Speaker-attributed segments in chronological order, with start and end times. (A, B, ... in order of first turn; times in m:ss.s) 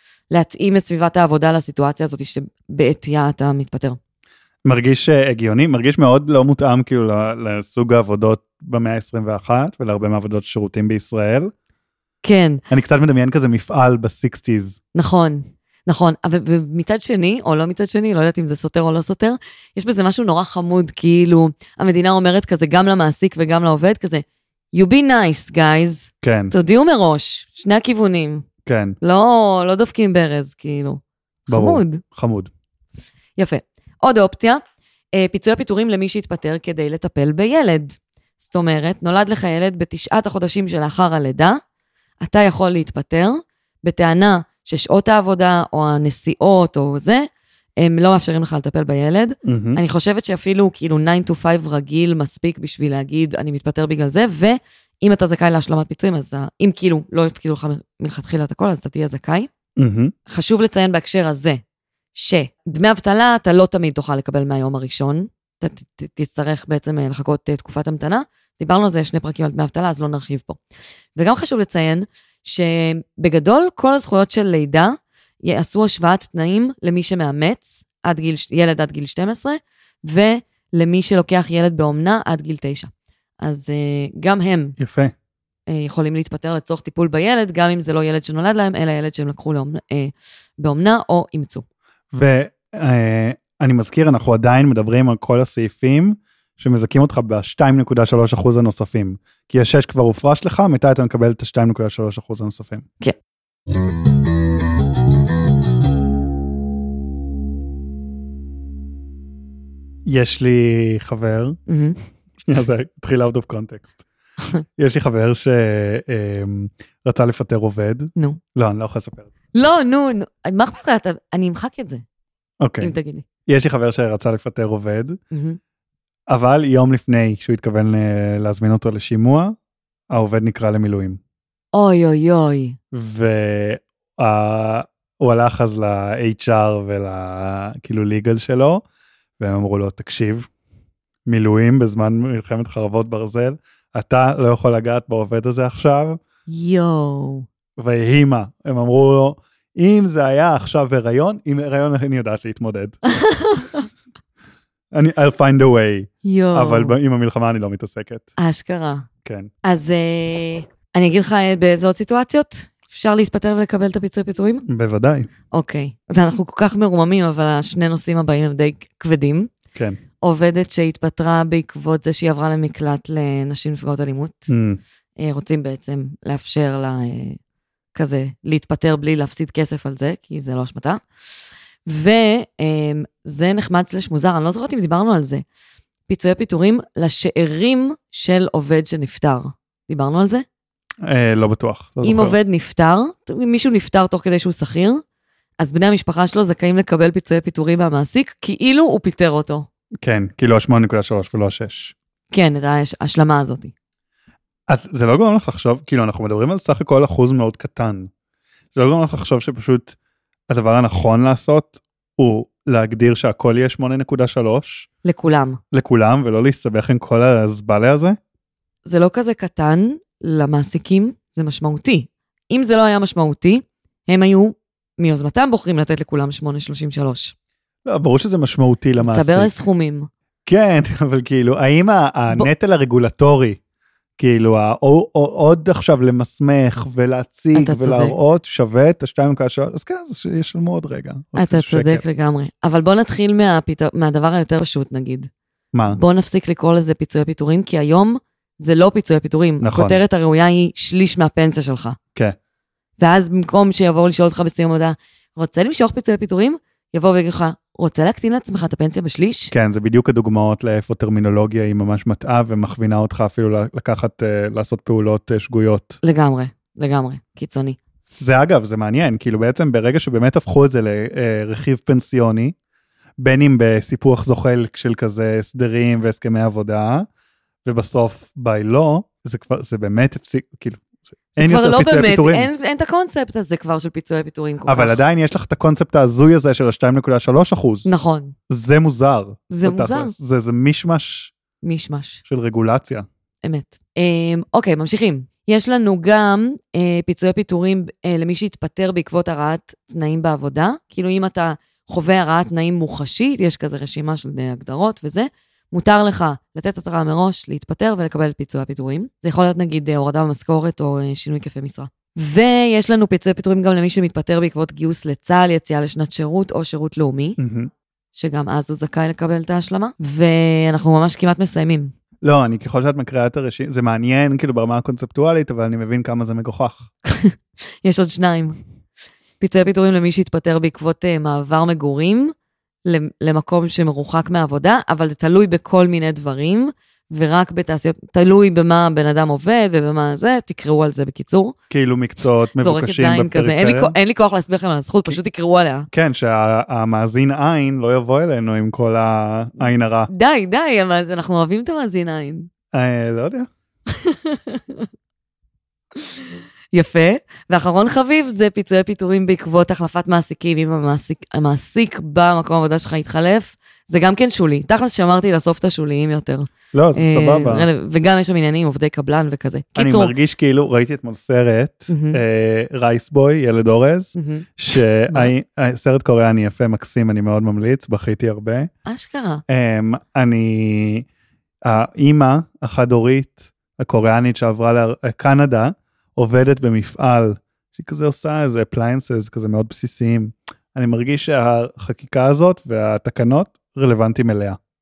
0:00.3-0:04.0 A
0:04.6-0:11.5 B
0:12.2-0:12.6 A
0:12.7-0:14.8 B
0:14.9-0:28.4 A
0:26.2-0:26.5 B
0:28.6-0:29.0 B
0:29.0-0:32.0 A
0:31.5-0:32.5 B
0:33.4-0:34.6 A
0:35.1-0:41.6 A
0:42.2-0:47.3 A
0:47.8-0:59.5 A
0:49.4-0:49.8 B
0:59.8-1:00.1 B
1:00.3-1:01.6 A
1:02.1-1:10.6 A
1:11.2-1:22.9 A
1:23.4-1:24.8 A
1:24.8-1:25.1 B
1:25.7-1:31.6 A
1:32.1-1:42.9 B
1:50.0-1:51.6 B
1:51.7-1:52.0 A
1:52.4-1:54.0 B
1:54.8-1:59.3 B
1:59.5-2:02.0 A
2:02.6-2:02.9 B
2:02.8-2:03.2 A
2:03.4-2:05.2 B
2:05.3-2:05.6 A
2:06.3-2:09.6 B
2:10.1-2:11.2 B
2:11.7-2:12.8 A
2:12.9-2:18.8 B
2:19.4-2:20.5 B
2:21.2-2:26.2 B
2:26.5-2:27.4 A
2:27.8-2:33.0 B
2:33.1-2:33.8 A
2:34.9-2:38.3 B
2:36.2-2:36.9 A
2:38.4-2:39.1 A
2:39.2-2:39.5 B
2:39.6-2:44.6 A
2:44.6-2:45.3 B
2:45.5-2:49.5 A
2:49.7-2:50.0 B
2:50.2-2:54.5 A
2:54.5-2:54.8 B
2:55.2-2:57.4 A
2:57.9-3:01.0 A
3:01.8-3:05.4 A
3:06.1-3:10.4 A
3:11.0-3:12.4 B
3:12.0-3:15.0 A
3:15.6-3:19.7 A
3:20.0-3:21.9 B
3:22.3-3:23.7 A
3:24.7-3:28.1 B
3:28.7-3:30.0 B
3:30.5-3:34.9 B
3:35.0-3:35.6 A
3:35.7-3:38.2 B
3:38.8-3:47.3 A
3:47.8-3:49.5 B
3:49.0-3:50.1 A
3:50.4-3:53.6 B
3:54.2-4:02.0 B
3:57.5-3:58.2 A
4:01.4-4:05.3 A
4:05.7-4:06.0 B
4:05.9-4:12.0 A
4:09.6-4:10.0 B
4:13.0-4:19.5 A
4:19.5-4:26.0 B
4:26.0-4:27.8 A
4:28.2-4:32.5 B
4:33.2-4:37.1 B
4:37.6-4:40.8 B
4:41.4-4:42.5 B
4:41.4-4:45.0 A
4:44.6-4:47.9 B
4:47.8-4:48.3 A
4:48.5-4:51.3 B
4:49.5-4:50.1 A
4:51.6-4:52.2 A
4:52.2-4:53.0 B
4:53.4-5:17.4 A
5:17.4-5:17.7 B
5:18.1-5:21.9 A
5:22.2-5:26.9 B
5:27.0-5:28.6 A
5:29.4-5:32.3 A
5:32.8-5:41.5 A
5:41.7-5:43.9 B
5:42.6-5:45.9 A
5:45.9-5:50.1 B
5:50.1-5:52.5 A
5:52.7-5:53.5 B
5:53.9-5:54.9 A
5:56.0-6:10.1 A
6:06.7-6:07.7 B
6:09.8-6:18.7 B
6:11.9-6:12.2 A
6:14.1-6:14.5 A
6:18.8-6:19.4 A
6:19.5-6:21.0 B
6:21.6-6:34.6 B